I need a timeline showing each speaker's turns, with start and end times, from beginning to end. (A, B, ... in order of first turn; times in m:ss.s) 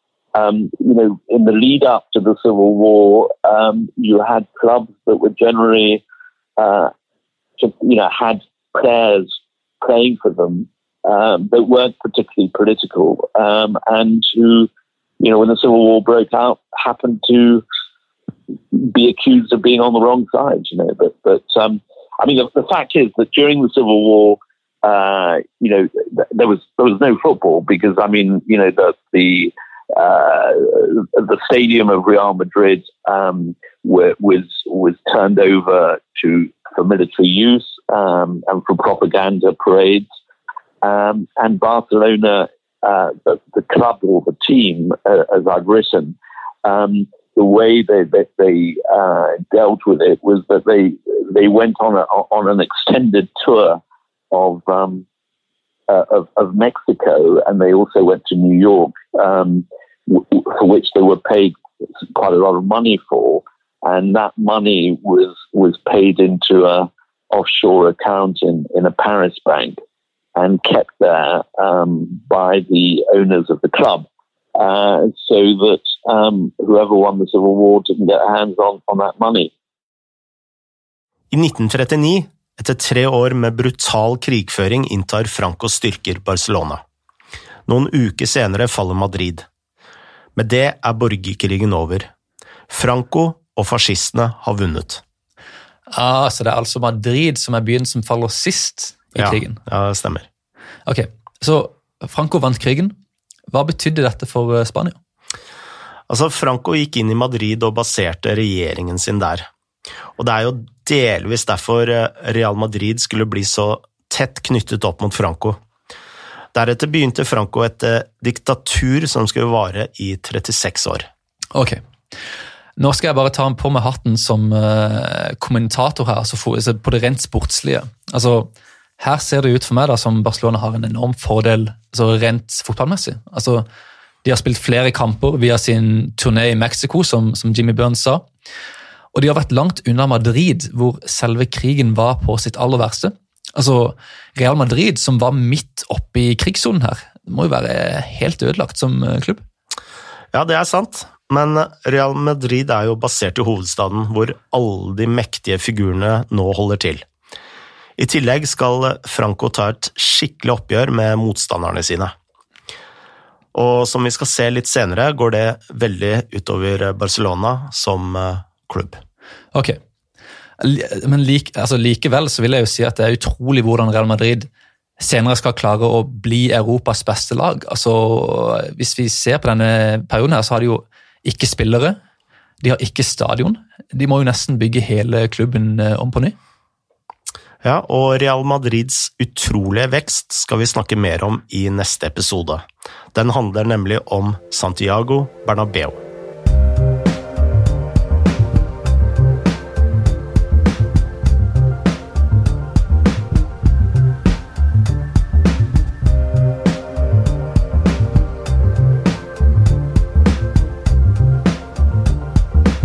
0:00.4-0:06.0 A
0:06.6-0:06.9 A
0:07.6-0:09.3 A
0:09.8-0:14.7 A
0:15.2-0:17.6 A
0:18.7-0:40.1 A
0:40.8-0:53.8 A
0:54.3-0:55.0 A
0:55.9-1:09.8 A
1:10.4-1:19.5 A
1:21.3-1:26.8 B
1:27.7-1:29.5 B
1:30.4-1:32.1 B
1:32.7-1:35.0 B
1:35.9-1:39.6 C
1:39.2-1:40.3 B
1:40.9-1:42.9 C
1:43.5-1:45.0 C
1:46.1-1:49.5 B
1:50.2-1:55.6 B
1:56.5-2:01.1 B
2:01.5-2:01.8 C
2:02.8-2:13.6 C
2:14.2-2:18.2 C
2:19.1-2:29.4 C
2:30.3-2:37.0 B
2:38.0-2:42.1 B
2:43.5-2:49.0 B
2:49.5-2:49.8 C
2:50.6-3:02.0 C
3:02.6-3:06.4 C
3:07.6-3:16.0 B